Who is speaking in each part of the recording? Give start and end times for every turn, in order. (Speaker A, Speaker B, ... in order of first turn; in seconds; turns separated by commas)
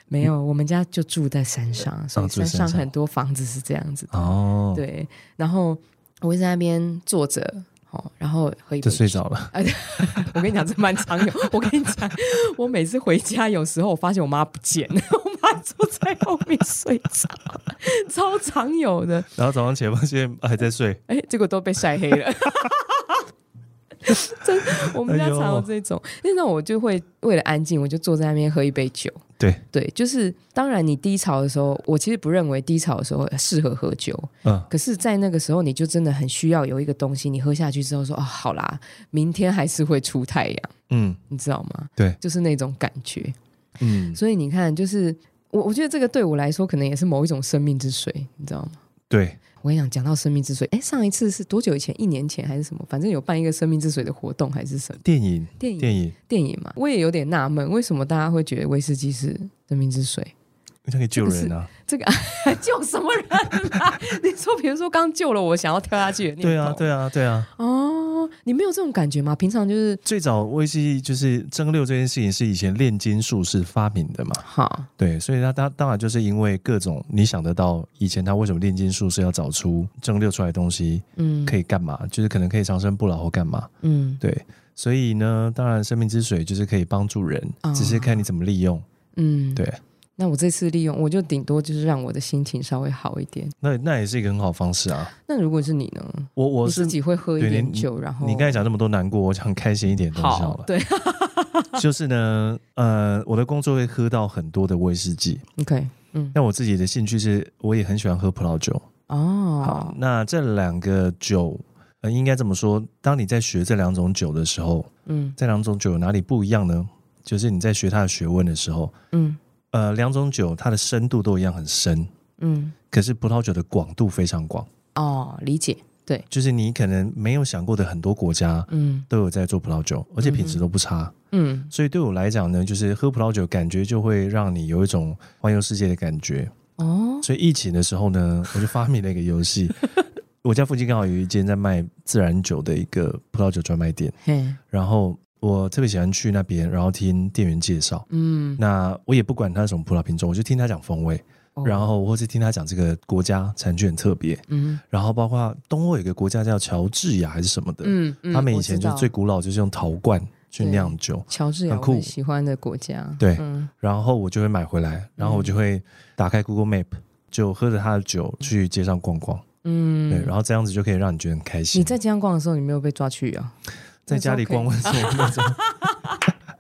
Speaker A: 0.1-19.3, Speaker B: 2.2-2.9, Speaker B: 4.1-4.8, Speaker B: 8.8-9.5, Speaker B: 10.0-10.3, Speaker B: 19.4-21.0, Speaker A: 21.1-23.2, Speaker A: 24.1-40.7, Speaker B: 24.9-25.7, Speaker B: 40.9-41.2, Speaker A: 41.3-43.4, Speaker B: 43.8-44.2, Speaker A: 44.1-48.8, Speaker B: 49.1-49.4, Speaker A: 49.6-55.0, Speaker B: 55.0-56.1, Speaker A: 55.6-60.3, Speaker B: 60.9-61.7, Speaker A: 61.2-66.9, Speaker B: 66.4-67.5, Speaker A: 67.5-70.0, Speaker B: 70.0-74.4, Speaker A: 74.4-74.9, Speaker B: 75.0-83.7, Speaker A: 81.2-81.6, Speaker A: 83.8-84.2, Speaker B: 84.2-88.8, Speaker A: 87.6-88.3, Speaker A: 89.2-89.7, Speaker A: 90.2-93.5, Speaker B: 93.6-95.1, Speaker A: 95.2-98.7, Speaker B: 96.4-100.7, Speaker A: 100.1-101.8, Speaker B: 101.8-105.4, Speaker A: 105.6-106.4, Speaker B: 106.3-108.8, Speaker A: 109.1-110.0, Speaker B: 109.6-118.9, Speaker A: 115.1-115.4, Speaker A: 119.1-119.4, Speaker B: 119.7-122.1, Speaker A: 122.4-122.8, Speaker B: 122.9-124.7, Speaker A: 125.0-126.3, Speaker B: 126.3-131.1, Speaker A: 128.7-129.1, Speaker A: 130.2-130.6, Speaker A: 131.3-131.7, Speaker B: 131.7-136.5, Speaker A: 136.8-137.3, Speaker B: 137.2-139.9, Speaker B: 140.4-144.1, Speaker A: 144.2-144.6, Speaker B: 144.7-148.1, Speaker A: 148.1-148.6, Speaker B: 148.6-162.1, Speaker A: 151.6-151.9, Speaker A: 154.5-154.8, Speaker A: 157.8-159.1, Speaker A: 160.6-163.7, Speaker B: 163.2-169.4, Speaker A: 165.2-165.6, Speaker A: 169.6-170.3, Speaker B: 170.1-171.9, Speaker A: 171.7-173.6, Speaker B: 174.1-175.6, Speaker A: 174.1-176.2